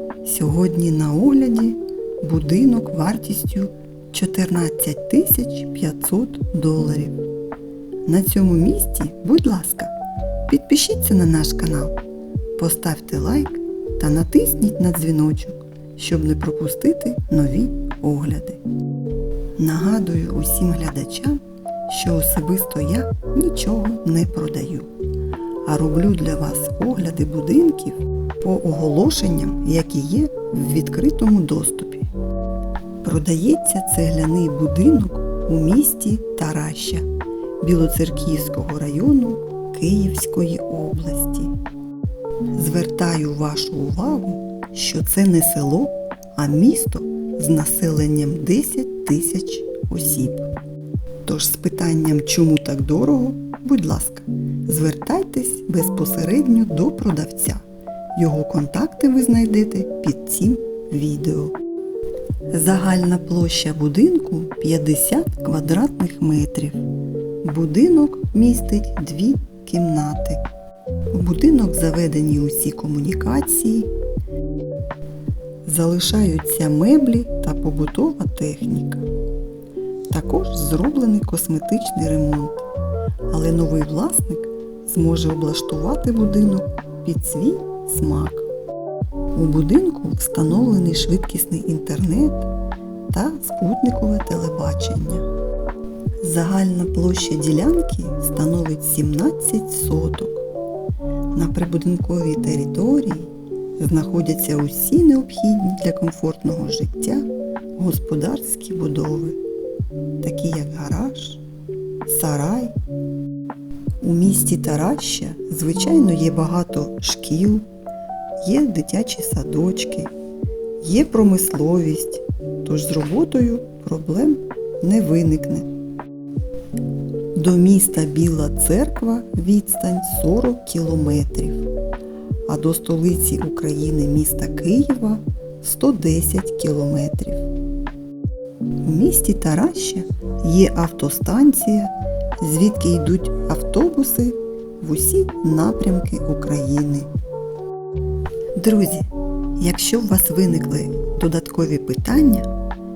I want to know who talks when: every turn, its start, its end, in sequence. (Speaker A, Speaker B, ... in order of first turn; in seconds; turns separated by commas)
Speaker A: 0.2-7.2, Speaker A: 8.1-9.9, Speaker A: 10.5-12.0, Speaker A: 12.6-18.6, Speaker A: 19.6-24.9, Speaker A: 25.6-32.1, Speaker A: 33.0-37.0, Speaker A: 37.6-41.5, Speaker A: 42.5-50.5, Speaker A: 51.2-57.6, Speaker A: 58.1-61.6, Speaker A: 62.5-66.8, Speaker A: 67.4-70.4, Speaker A: 71.1-73.9, Speaker A: 75.7-79.0, Speaker A: 80.1-82.7, Speaker A: 83.3-88.5, Speaker A: 89.3-92.5, Speaker A: 93.1-95.3, Speaker A: 96.2-100.5, Speaker A: 101.3-109.4, Speaker A: 110.2-111.4, Speaker A: 112.1-112.7, Speaker A: 114.0-117.7, Speaker A: 118.4-120.1, Speaker A: 120.8-125.7, Speaker A: 127.3-131.7, Speaker A: 132.5-137.5, Speaker A: 138.8-147.1, Speaker A: 148.6-152.5